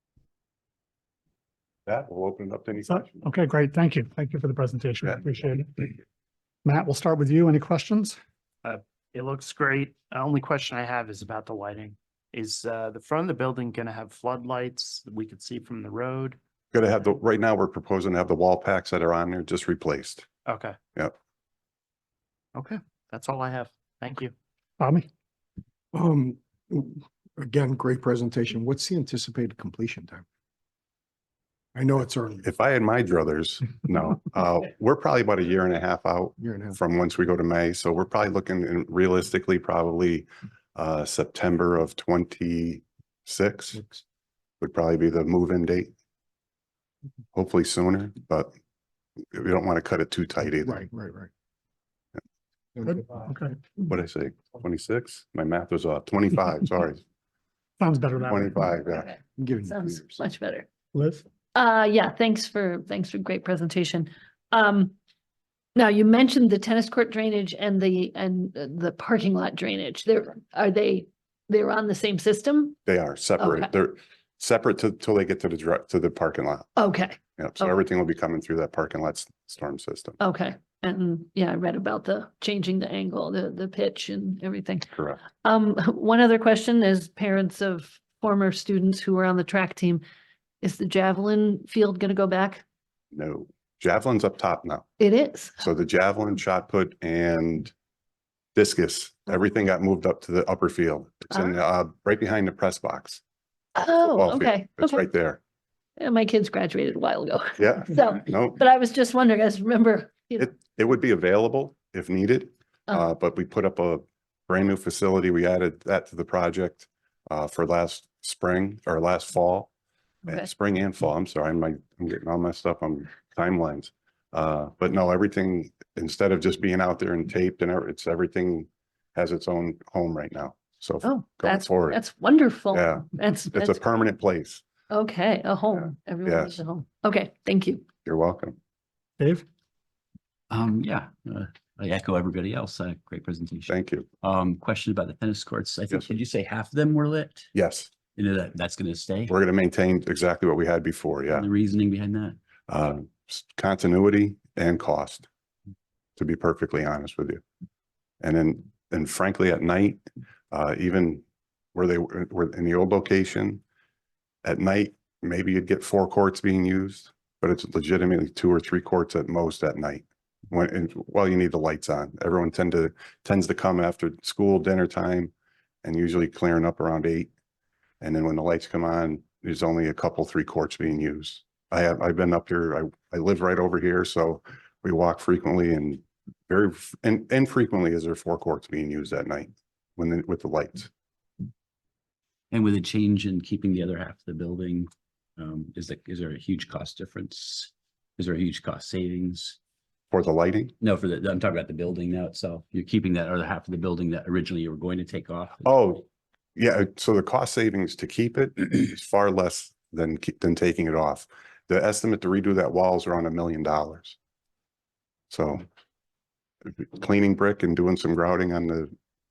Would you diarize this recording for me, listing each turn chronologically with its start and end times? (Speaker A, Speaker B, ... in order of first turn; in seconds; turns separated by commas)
Speaker A: 1.9-3.2, Speaker B: 2.9-6.0, Speaker B: 6.6-8.2, Speaker C: 8.6-16.4, Speaker A: 16.7-20.2, Speaker C: 20.4-20.8, Speaker C: 22.5-24.3, Speaker B: 24.8-25.1, Speaker D: 25.9-30.2, Speaker D: 31.7-32.5, Speaker A: 32.4-43.8, Speaker D: 36.4-36.8, Speaker D: 43.7-44.0, Speaker A: 44.6-45.9, Speaker A: 47.3-48.5, Speaker A: 49.3-50.8, Speaker D: 50.5-51.3, Speaker D: 52.7-53.3, Speaker B: 53.1-53.5, Speaker A: 53.9-57.0, Speaker B: 57.8-58.7, Speaker A: 58.2-59.1, Speaker E: 58.9-60.7, Speaker D: 59.4-60.0, Speaker B: 60.9-61.2, Speaker E: 61.5-64.9, Speaker E: 65.8-72.8, Speaker A: 72.8-76.7, Speaker E: 73.4-73.7, Speaker E: 76.8-77.7, Speaker A: 77.4-80.2, Speaker E: 80.2-90.0, Speaker A: 84.9-85.2, Speaker E: 90.6-92.6, Speaker A: 93.1-94.8, Speaker E: 95.0-95.7, Speaker A: 95.6-97.7, Speaker A: 98.5-103.2, Speaker E: 101.3-101.6, Speaker E: 103.8-105.0, Speaker A: 104.0-105.4, Speaker E: 106.0-110.5, Speaker A: 107.6-108.6, Speaker A: 110.4-119.7, Speaker A: 120.3-132.0, Speaker E: 131.0-133.8, Speaker A: 132.7-134.6, Speaker E: 134.9-137.9, Speaker A: 136.2-136.6, Speaker A: 138.0-138.6, Speaker B: 139.2-139.4, Speaker F: 140.5-147.5, Speaker A: 143.7-144.1, Speaker A: 147.5-147.9, Speaker F: 148.1-149.3, Speaker A: 149.3-151.5, Speaker F: 151.3-152.4, Speaker A: 152.7-155.3, Speaker A: 156.2-157.4, Speaker A: 158.2-161.2, Speaker A: 161.7-163.6, Speaker A: 164.4-175.3, Speaker A: 175.8-177.3, Speaker A: 178.0-190.9, Speaker F: 192.5-199.6, Speaker A: 200.1-200.7, Speaker F: 200.8-205.7, Speaker A: 205.6-206.0, Speaker A: 206.6-214.2, Speaker A: 215.3-215.7, Speaker A: 216.7-218.9